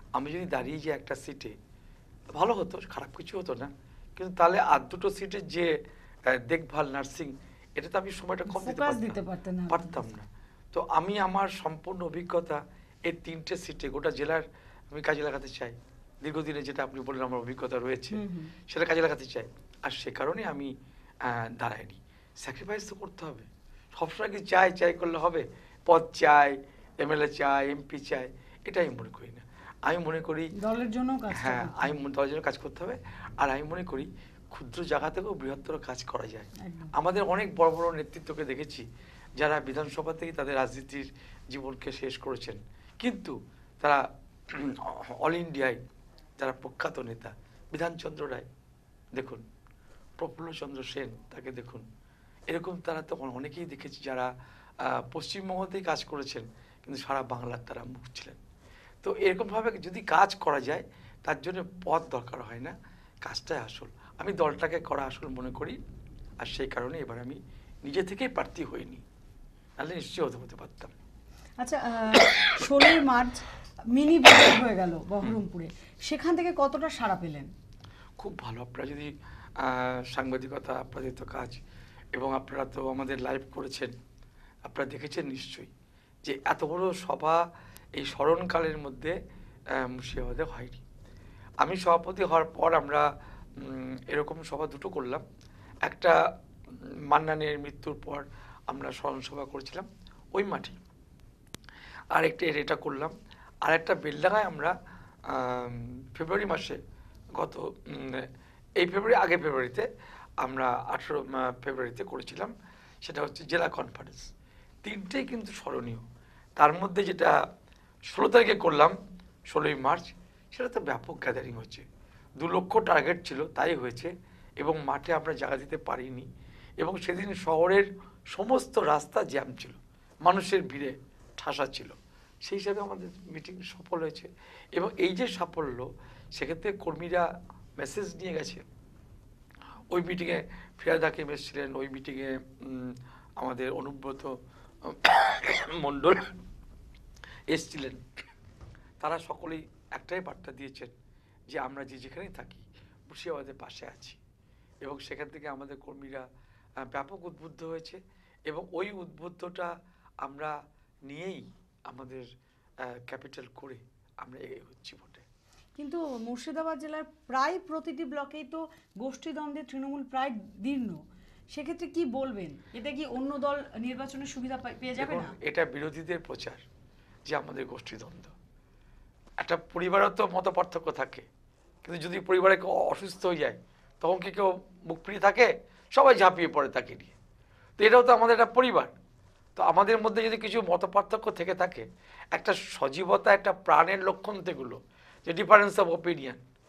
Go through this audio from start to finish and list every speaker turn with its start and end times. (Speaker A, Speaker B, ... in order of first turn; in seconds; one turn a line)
Speaker A: 0.1-1.5
Speaker A: 2.3-5.7
Speaker A: 6.3-9.2
Speaker B: 8.5-10.0
Speaker A: 9.7-20.7
Speaker B: 18.1-18.5
Speaker A: 21.2-30.5
Speaker B: 30.6-32.0
Speaker A: 31.3-38.8
Speaker B: 36.6-36.9
Speaker A: 39.4-45.8
Speaker A: 46.4-48.5
Speaker A: 49.1-49.4
Speaker A: 50.2-51.8
Speaker A: 52.5-54.3
Speaker A: 54.8-58.4
Speaker A: 59.0-65.8
Speaker A: 66.4-69.0
Speaker A: 69.8-70.9
Speaker B: 71.6-77.5
Speaker A: 78.2-81.6
Speaker A: 82.1-83.9
Speaker A: 84.7-85.7
Speaker A: 86.2-87.4
Speaker A: 88.0-89.2
Speaker A: 89.7-90.8
Speaker A: 91.6-93.1
Speaker A: 93.6-95.2
Speaker A: 95.8-96.2
Speaker A: 97.1-100.8
Speaker A: 102.1-103.1
Speaker A: 103.6-104.7
Speaker A: 105.3-106.8
Speaker A: 107.3-108.3
Speaker A: 108.8-109.9
Speaker A: 110.4-112.5
Speaker A: 113.0-114.3
Speaker A: 114.8-116.0
Speaker A: 116.6-117.3
Speaker A: 118.1-118.9
Speaker A: 119.5-121.8
Speaker A: 122.4-126.3
Speaker A: 126.8-137.3
Speaker A: 137.8-138.6
Speaker A: 139.9-144.3
Speaker A: 144.8-146.3
Speaker A: 147.5-148.0
Speaker A: 149.0-150.9
Speaker A: 151.5-154.2
Speaker A: 154.8-156.2
Speaker A: 156.9-159.7
Speaker A: 160.2-160.6
Speaker A: 161.1-162.2
Speaker A: 162.8-165.2
Speaker B: 165.8-171.0
Speaker B: 171.5-175.3
Speaker A: 175.0-176.6
Speaker A: 177.3-178.3
Speaker A: 179.4-181.3
Speaker A: 181.8-187.1
Speaker A: 187.8-188.9
Speaker A: 189.6-196.4